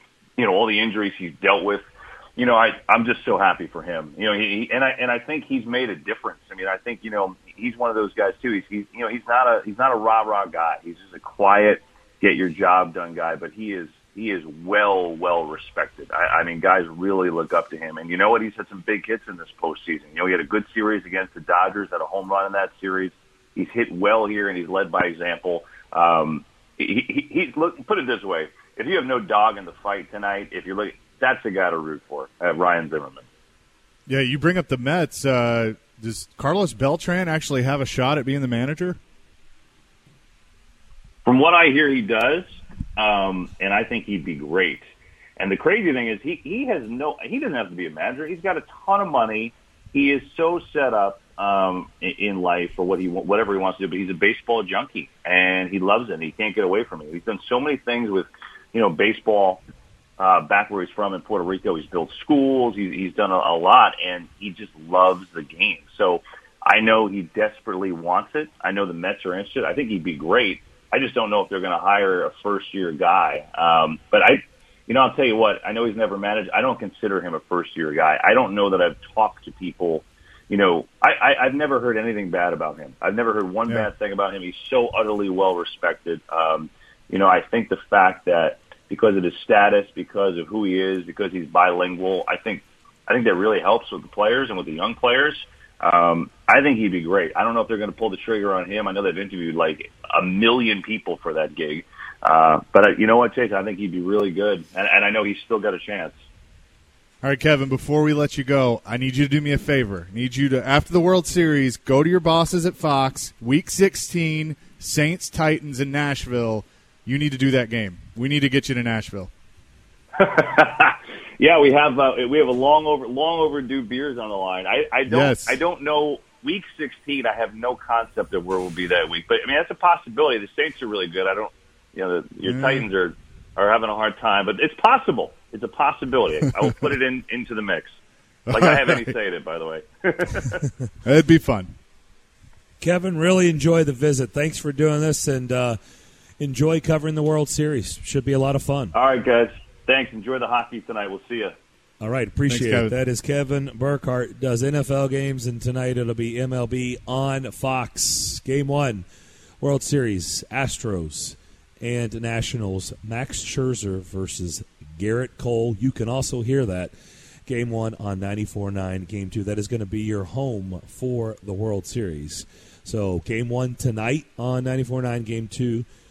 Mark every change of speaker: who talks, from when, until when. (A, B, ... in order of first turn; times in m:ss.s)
0:00.4-0:33.2 A
0:34.1-0:39.0 B
0:41.2-0:44.8 A
0:45.4-0:59.6 A
1:00.2-1:46.2 A
1:47.2-1:59.3 B
2:00.2-2:18.0 A
2:05.1-2:05.6 B
2:12.4-2:12.8 B
2:18.4-2:19.1 B
2:18.5-2:20.6 A
2:21.0-2:21.7 B
2:22.8-2:25.8 C
2:26.4-2:28.9 C
2:28.9-2:31.5 A
2:32.0-2:39.0 C
2:32.5-2:32.9 B
2:39.6-2:46.9 C
2:47.5-2:55.8 C